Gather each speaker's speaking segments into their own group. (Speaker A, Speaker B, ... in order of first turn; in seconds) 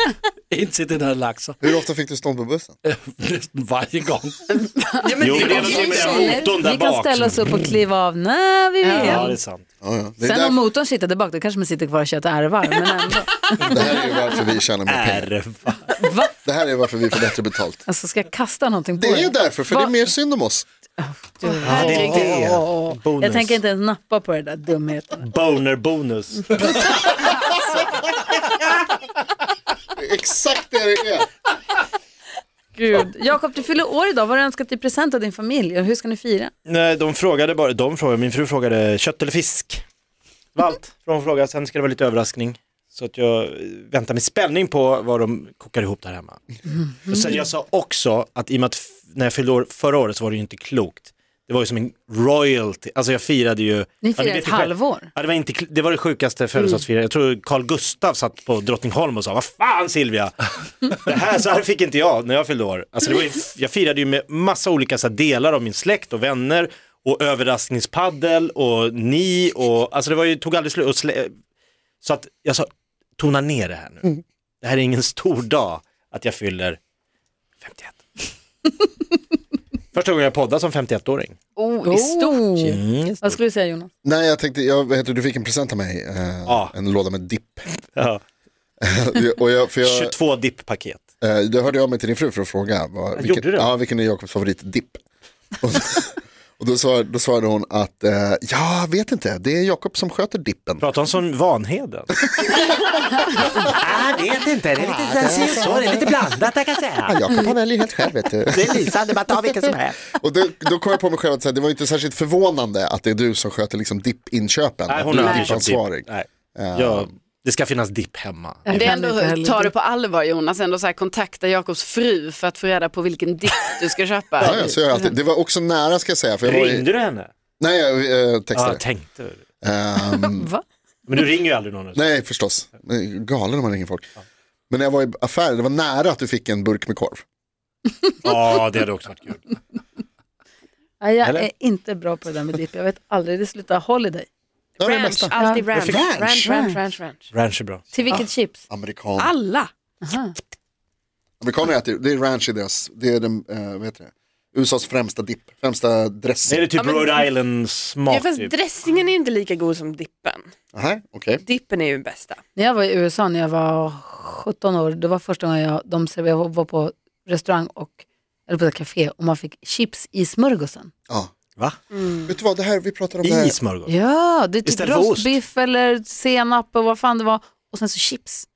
Speaker A: 0.5-1.6, 2.9-4.6
Speaker B: 1.6-2.7, 9.8-10.6, 13.7-15.3, 16.4-17.8, 19.0-20.7, 30.0-31.3, 84.0-87.7, 88.8-90.1, 91.2-95.0, 95.6-100.8, 102.3-102.7, 104.8-106.1, 107.1-108.9, 110.1-117.1, 124.4-126.9, 127.6-128.8, 129.6-130.5, 131.9-134.1, 134.7-137.2, 144.8-146.7, 148.1-149.3, 151.4-156.7, 160.7-161.4, 172.3-173.6
Speaker C: 4.5-6.3, 8.9-9.2, 21.6-22.4, 81.6-82.8, 115.1-115.6, 118.7-125.1
Speaker D: 5.1-6.3, 144.8-147.2, 149.2-149.7, 156.8-157.3, 158.1-160.5, 161.4-162.4
Speaker E: 5.2-7.5, 9.1-9.7, 14.9-16.0, 21.6-23.6, 25.2-26.9, 36.7-39.8, 40.5-60.3, 60.9-71.3, 72.0-76.8, 77.6-78.0, 79.9-81.4, 82.7-83.4, 86.5-86.7, 87.7-88.2, 89.8-91.0, 93.2-93.8, 100.8-102.2, 103.7-107.2, 108.5-110.0, 114.9-118.8, 126.4-127.3, 128.5-129.4, 131.1-132.1, 138.2-139.4, 141.2-141.5, 147.3-147.9, 156.5-158.6, 171.6-171.8, 173.2-173.9, 174.7-175.4
Speaker F: 5.4-9.4, 10.2-14.0, 16.0-16.3, 17.9-19.9, 21.0-25.3, 32.8-36.5, 46.7-47.4, 54.0-55.1, 81.8-83.9, 118.7-119.7, 130.2-130.6, 141.0-144.3, 145.1-145.7, 146.3-146.8, 147.9-148.6, 150.0-150.3, 162.6-170.9, 173.9-178.5